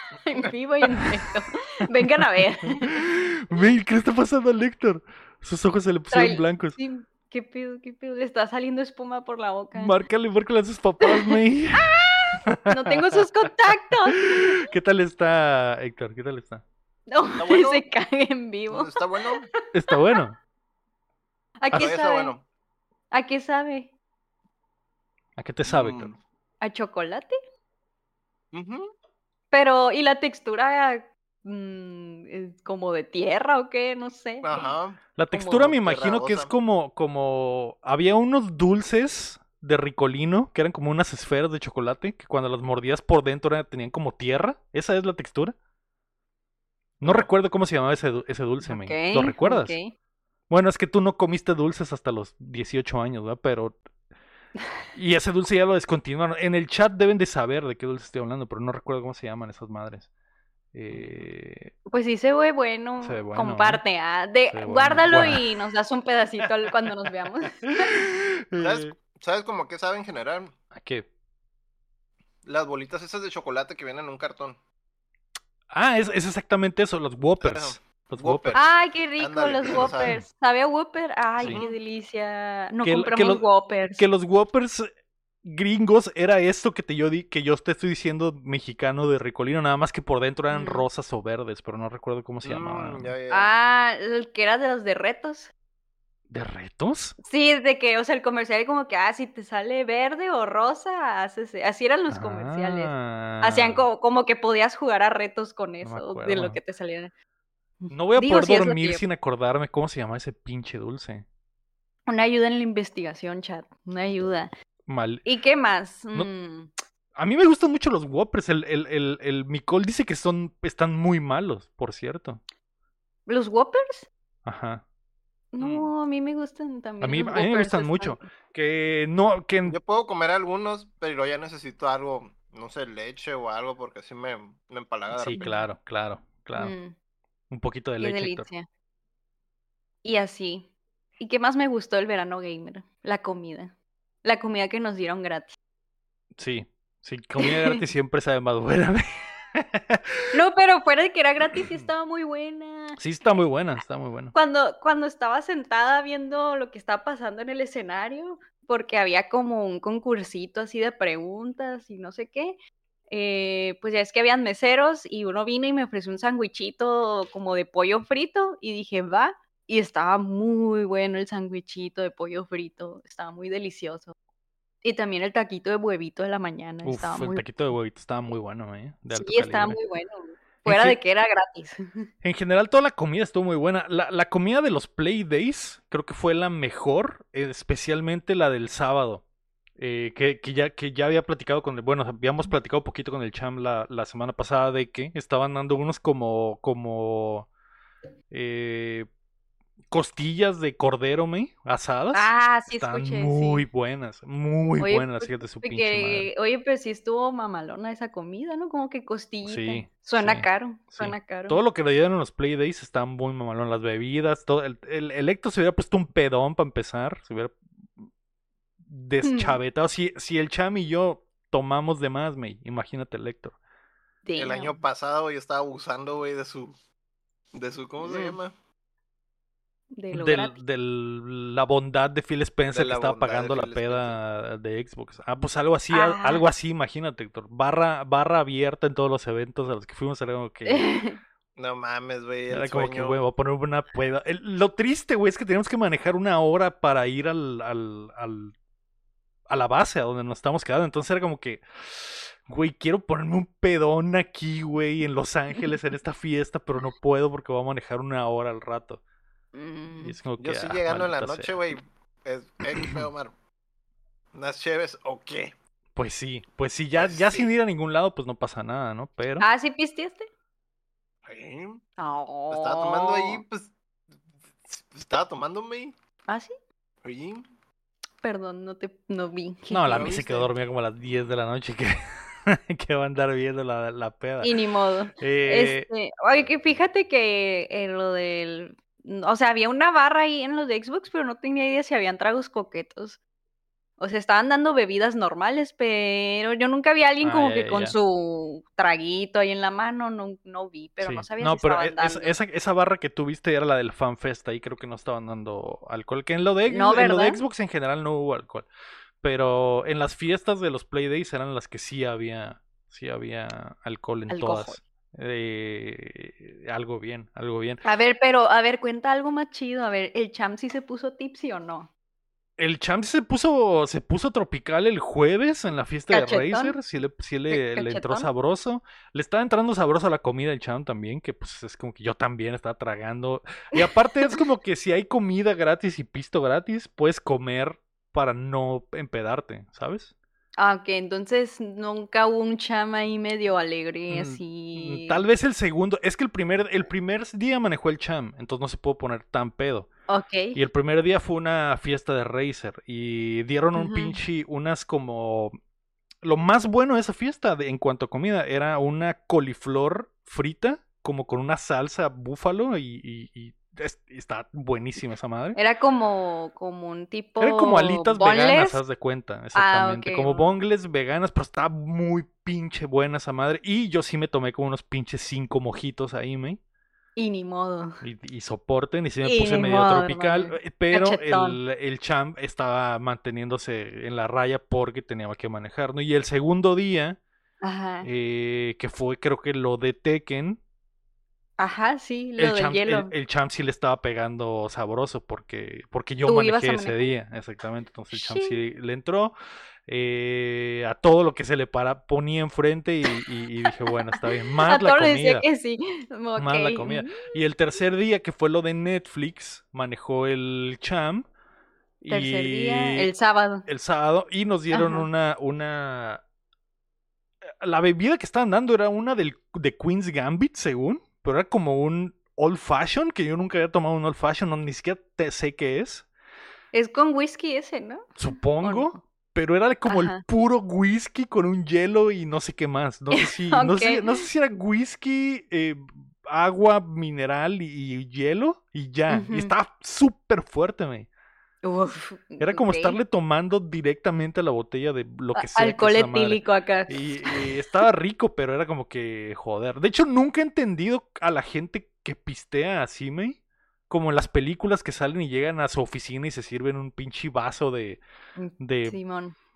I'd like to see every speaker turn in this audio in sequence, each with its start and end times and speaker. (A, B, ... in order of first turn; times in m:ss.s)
0:00.2-0:03.0 A
0:02.7-0:06.8 B
0:06.1-0:10.0 A
0:09.7-0:11.9 B
0:11.0-0:14.6 A
0:12.5-0:13.0 B
0:14.2-0:16.6 B
0:17.1-0:20.2 A
0:17.4-0:17.8 C
0:18.7-0:19.5 C
0:19.7-0:20.4 B
0:21.6-0:22.3 A
0:21.7-0:22.4 C
0:23.1-0:23.9 A
0:25.4-0:26.1 B
0:25.6-0:26.2 C
0:26.6-0:27.4 A
0:28.5-0:28.9 C
0:29.5-0:34.7 A
0:34.4-0:35.0 C
0:35.2-0:45.6 B
0:35.3-0:35.8 A
0:35.8-0:36.5 C
0:47.0-0:49.8 B
0:47.0-0:47.3 C
0:48.6-0:49.9 A
0:50.5-0:53.8 B
0:54.9-1:00.1 B
1:00.7-1:01.7 B
1:01.9-1:08.0 A
1:03.0-1:03.8 B
1:04.5-1:05.4 B
1:07.7-1:08.9 B
1:08.6-1:10.5 C
1:10.7-1:11.1 B
1:12.4-1:14.6 C
1:15.7-1:18.6 B
1:17.4-1:18.6 C
1:18.6-1:24.1 A
1:19.2-1:20.2 C
1:19.7-1:20.2 B
1:21.4-1:21.8 C
1:22.8-1:24.9 B
1:25.4-1:33.1 B
1:30.5-1:30.9 A
1:32.4-1:33.5 C
1:33.3-1:35.5 A
1:36.3-1:37.2 B
1:37.2-1:47.1 A
1:42.1-1:43.9 B
1:45.8-1:46.6 B
1:47.8-1:49.0 A
1:47.9-1:51.2 B
1:52.1-1:54.5 A
1:54.9-1:55.2 B
1:55.2-1:56.7 A
1:57.2-2:02.4 B
2:03.3-2:04.1 A
2:04.4-2:04.8 B
2:05.5-2:08.3 A
2:05.6-2:05.9 B
2:07.0-2:09.8 B
2:09.6-2:15.4 C
2:15.1-2:16.8 B
2:15.4-2:15.7 A
2:16.6-2:16.9 A
2:17.5-2:18.5 B
2:18.0-2:18.7 A
2:20.0-2:20.7 A
2:21.2-2:25.6 A
2:26.4-2:30.3 B
2:27.4-2:27.8 A
2:30.3-2:33.0 A
2:31.6-2:31.9 B
2:33.0-2:34.3 B
2:34.3-2:42.6 A
2:43.1-2:54.2 A
2:54.8-2:57.5 A
2:56.8-2:59.8 B
2:59.1-3:02.1 A
3:00.6-3:01.0 B
3:02.2-3:09.2 B
3:09.8-3:17.5 B
3:18.3-3:19.1 B
3:19.9-3:26.3 B
3:22.1-3:23.6 A
3:24.8-3:31.6 A
3:29.5-3:37.6 B
3:38.9-3:43.6 B
3:39.2-3:39.6 A
3:44.2-3:44.8 A
3:44.4-3:46.8 C
3:47.5-3:48.5 C
3:48.0-3:48.4 A
3:50.0-3:50.6 A
3:50.1-4:01.0 B
3:52.7-3:54.2 C
3:55.9-3:56.4 A
4:00.7-4:01.2 A
4:01.6-4:03.2 C
4:02.5-4:08.6 B
4:09.5-4:19.0 B
4:19.5-4:20.2 A
4:20.0-4:21.5 B
4:20.4-4:23.3 C
4:22.8-4:23.0 B
4:24.3-4:25.5 C
4:26.0-4:29.5 B
4:27.0-4:27.5 C
4:29.4-4:30.3 A
4:31.3-4:31.8 C
4:32.0-4:33.4 A
4:32.5-4:33.7 C
4:34.7-4:35.9 C
4:36.3-4:36.5 A
4:37.0-4:37.5 C
4:38.2-4:40.2 A
4:39.7-4:44.5 B
4:39.9-4:40.5 C
4:44.4-4:53.2 A
4:45.2-4:45.9 B
4:54.0-5:02.3 A
4:57.2-4:58.0 B
5:01.0-5:08.7 B
5:06.7-5:07.4 A
5:09.2-5:17.8 B
5:14.3-5:14.8 A
5:17.8-5:21.9 A
5:22.6-5:40.1 B
5:26.1-5:26.8 A
5:27.5-5:28.3 A
5:33.8-5:34.4 A
5:40.6-5:45.2 A
5:44.1-5:49.9 B
5:50.1-5:50.6 A
5:50.5-5:55.5 B
5:53.7-5:54.2 A
5:56.2-6:05.6 B
6:05.6-6:08.8 A
6:07.4-6:16.6 B
6:09.6-6:10.5 A
6:17.2-6:18.0 A
6:18.0-6:27.2 B
6:19.2-6:21.6 A
6:27.6-6:28.1 A
6:28.0-6:30.6 B
6:31.6-6:33.1 A
6:32.4-6:39.3 B
6:36.2-6:37.1 A
6:38.1-6:38.6 A
6:39.9-6:45.4 B
6:44.7-6:47.4 A
6:46.4-6:51.3 B
6:52.0-6:53.1 B
6:52.1-6:53.7 A
6:53.7-6:56.2 B
6:54.7-6:55.1 A
6:57.5-7:06.1 B
7:06.7-7:09.0 A
7:08.2-7:21.1 B
7:09.9-7:10.2 A
7:13.1-7:14.2 A
7:19.1-7:19.5 A
7:21.6-7:23.0 A
7:22.4-7:38.0 B
7:25.4-7:27.8 A
7:38.4-7:39.4 A
7:38.6-7:39.0 B